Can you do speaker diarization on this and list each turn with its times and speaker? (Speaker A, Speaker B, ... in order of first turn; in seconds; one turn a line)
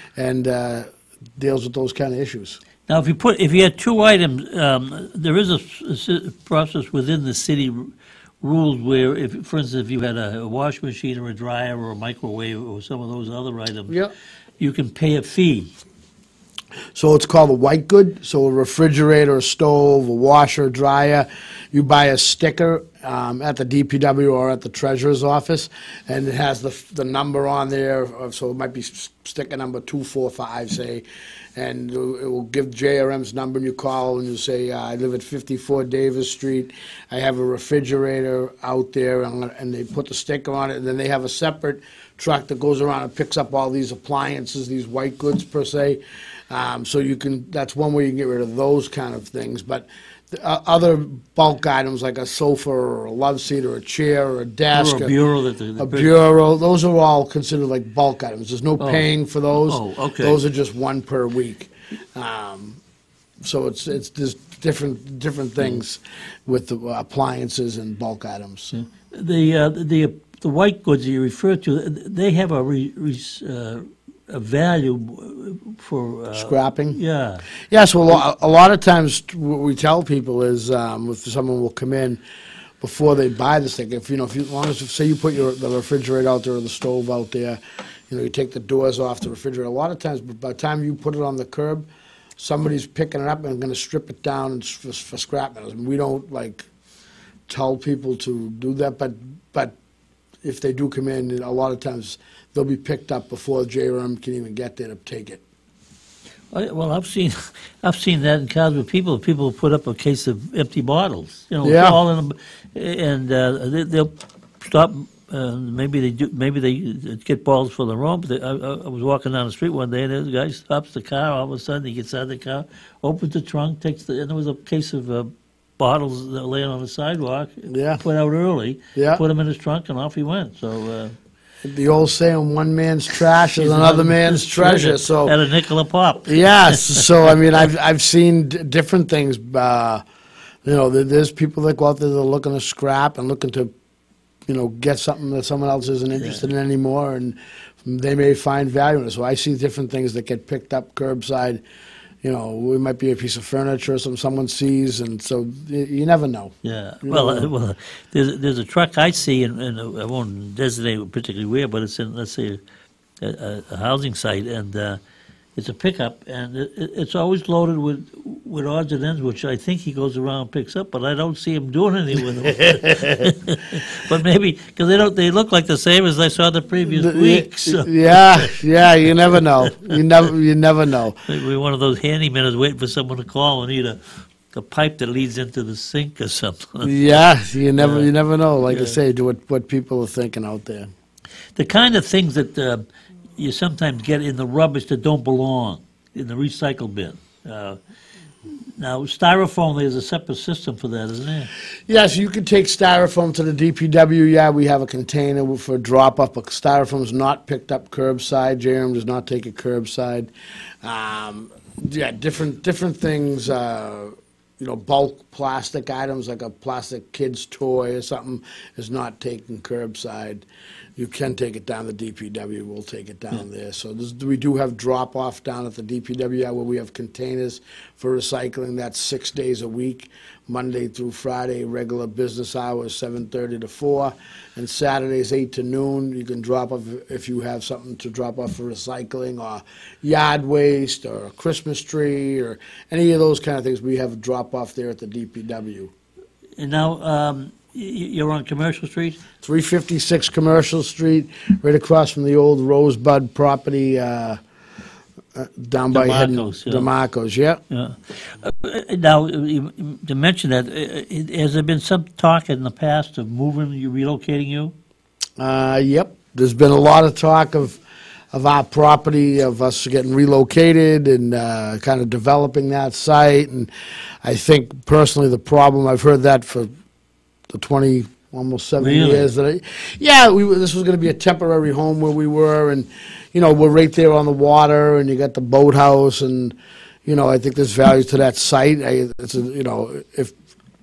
Speaker A: 0.2-2.6
Speaker B: 2.9-14.0
Speaker B: 14.6-15.7
Speaker A: 16.9-31.0
Speaker A: 31.5-55.1
Speaker B: 54.7-56.1
Speaker A: 55.8-62.8
Speaker B: 59.6-60.4
Speaker A: 63.4-68.7
Speaker B: 68.7-77.5
Speaker A: 76.3-77.0
Speaker A: 77.6-82.2
Speaker A: 82.8-96.7
Speaker A: 97.5-99.7
Speaker A: 100.4-105.4
Speaker B: 106.5-131.2
Speaker A: 111.6-112.0
Speaker A: 127.7-128.0
Speaker A: 128.9-129.2
Speaker A: 131.6-135.3
Speaker B: 133.5-137.3
Speaker A: 136.2-140.0
Speaker A: 140.6-143.7
Speaker A: 144.4-151.6
Speaker A: 152.2-157.5
Speaker B: 156.6-162.6
Speaker B: 163.2-165.0
Speaker B: 165.6-178.6
Speaker A: 172.5-173.3
Speaker A: 176.9-181.2
Speaker B: 179.7-180.0
Speaker B: 181.2-188.1
Speaker A: 186.8-190.9
Speaker B: 188.7-189.0
Speaker B: 191.5-192.8
Speaker B: 193.4-197.8
Speaker B: 198.5-201.5
Speaker A: 201.9-210.3
Speaker A: 210.8-245.9
Speaker B: 246.6-249.2
Speaker A: 249.4-254.4
Speaker A: 255.3-257.6
Speaker B: 255.9-256.9
Speaker B: 257.7-264.7
Speaker A: 265.4-267.8
Speaker A: 268.3-273.7
Speaker A: 274.2-276.7
Speaker A: 277.5-290.4
Speaker B: 278.8-279.3